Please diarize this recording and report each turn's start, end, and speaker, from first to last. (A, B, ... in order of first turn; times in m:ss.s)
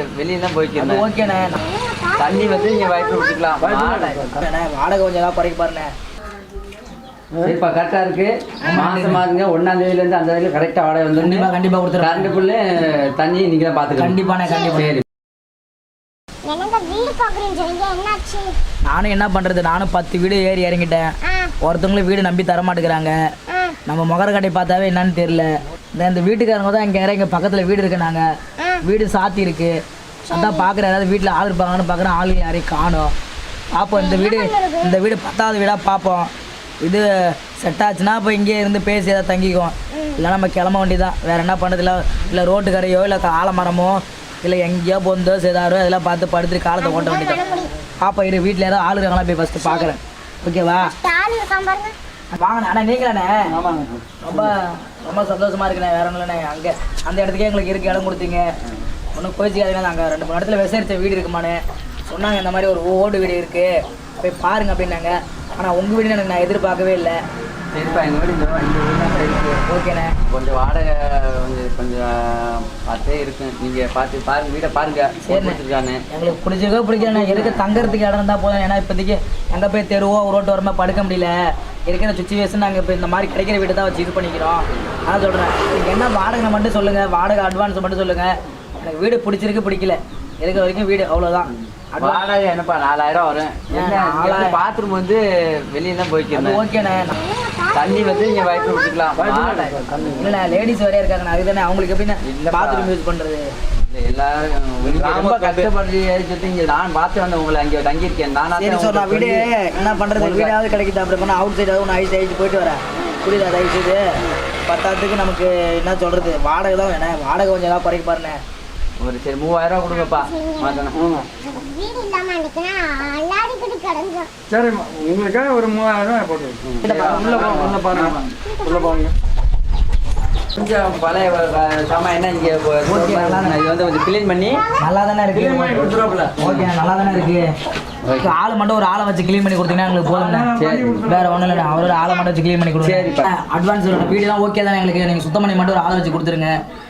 0:00.2-0:01.1 A
0:00.8-0:01.6 B
0:01.6-0:03.5 C
0:02.2-0:04.3 A
0:03.6-0:04.4 D
0:04.4-0:05.9 B
0:07.4-0:14.2 A
0:08.6-0:09.2 B
0:11.2-0:12.3 B
0:14.0-0:15.0 B
0:14.5-0:14.8 C
0:14.7-0:15.0 A
0:16.5-0:18.6 C
0:18.9-0:23.1 B
0:21.2-0:21.5 C
0:23.5-0:23.8 C
0:23.9-0:28.2 B
0:28.6-0:28.8 C
0:28.8-0:29.8 B
0:30.2-0:30.7 C
0:30.3-0:33.1 B
0:33.7-0:36.3 B
0:33.9-0:35.0 C
0:36.8-0:47.4 B
0:39.9-0:40.2 C
0:46.8-0:47.7 C
0:48.0-0:50.9 B
0:49.6-0:49.9 C
0:50.8-0:52.0 C
0:52.3-0:53.4 B
0:53.5-0:53.9 D
0:53.6-0:54.5 A
0:54.2-0:58.5 B
0:59.2-1:07.2 B
1:07.7-1:09.6 A
1:09.6-1:10.2 B
1:10.3-1:16.0 A
1:15.2-1:15.6 B
1:16.1-1:21.3 B
1:17.0-1:17.9 A
1:21.9-1:32.2 B
1:32.0-1:35.2 A
1:33.7-1:34.6 B
1:35.7-1:36.6 A
1:36.3-1:37.2 B
1:37.0-1:39.0 C
1:37.7-1:40.2 A
1:39.2-1:40.4 D
1:40.2-1:43.5 B
1:42.3-1:42.9 A
1:43.9-1:49.5 A
1:44.8-1:45.4 D
1:48.6-1:54.0 B
1:50.2-1:50.6 A
1:53.0-1:53.2 C
1:54.6-1:58.4 B
1:59.0-2:01.0 A
1:59.9-2:04.3 C
2:00.9-2:01.3 D
2:04.5-2:09.1 D
2:06.6-2:08.2 A
2:06.8-2:07.5 B
2:08.4-2:09.1 C
2:10.6-2:14.6 A
2:12.9-2:13.6 B
2:14.5-2:14.9 C
2:14.8-2:17.5 B
2:15.3-2:16.4 D
2:16.4-2:16.7 A
2:18.0-2:18.4 A
2:18.2-2:20.5 B
2:20.1-2:21.5 D
2:20.6-2:21.0 A
2:21.0-2:26.5 B
2:21.7-2:22.2 C
2:22.8-2:23.3 A